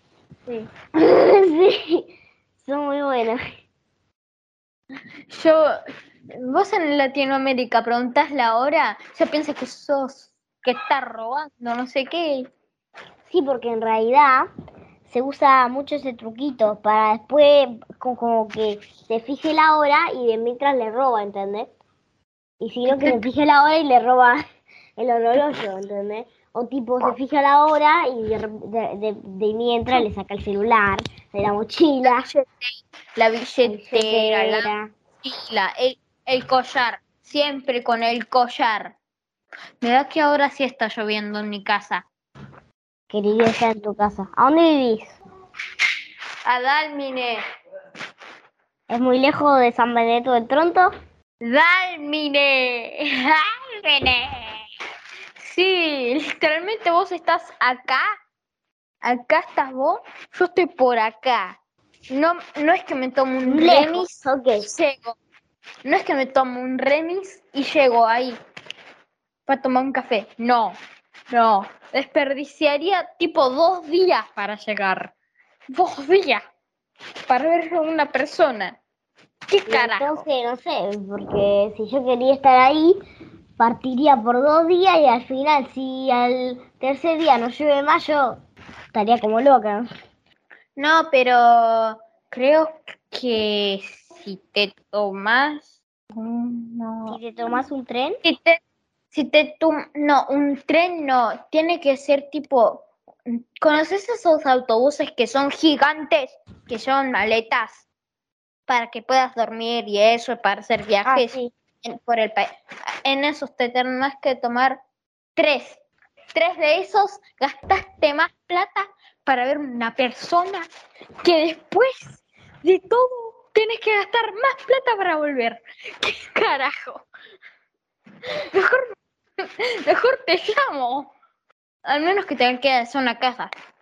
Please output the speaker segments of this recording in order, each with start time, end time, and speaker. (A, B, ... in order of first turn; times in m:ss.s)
0:01.0-0:02.0 A
0:02.6-0:03.4 A
0:05.3-0:05.7 B
0:06.4-0:12.5 B
0:13.3-0:14.5 A
0:15.1-0:21.7 A
0:22.6-0:24.4 A
0:22.9-0:23.2 B
0:25.0-0:32.3 A
0:32.0-0:34.7 B
0:33.6-0:34.9 A
0:35.2-0:38.9 B
0:39.8-0:42.0 B
0:43.1-0:45.2 A
0:46.4-0:47.4 B
0:48.9-0:50.9 A
0:51.4-0:54.6 B
0:55.4-0:58.1 B
0:59.0-1:01.6 B
1:02.1-1:05.2 B
1:03.4-1:04.7 A
1:05.8-1:08.4 B
1:09.5-1:10.8 B
1:11.3-1:15.1 B
1:15.7-1:16.4 B
1:17.3-1:18.8 B
1:19.5-1:20.2 B
1:19.6-1:23.0 A
1:23.6-1:28.4 A
1:28.9-1:29.9 A
1:30.8-1:37.2 B
1:37.1-1:38.2 A
1:38.2-1:38.6 B
1:39.1-1:42.9 B
1:43.6-1:47.8 B
1:48.7-1:52.5 B
1:51.0-1:51.5 A
1:53.0-1:54.8 B
1:55.4-1:55.8 B
1:56.3-2:00.7 B
2:01.2-2:07.0 B
2:08.5-2:08.8 B
2:09.8-2:11.1 B
2:11.8-2:13.5 B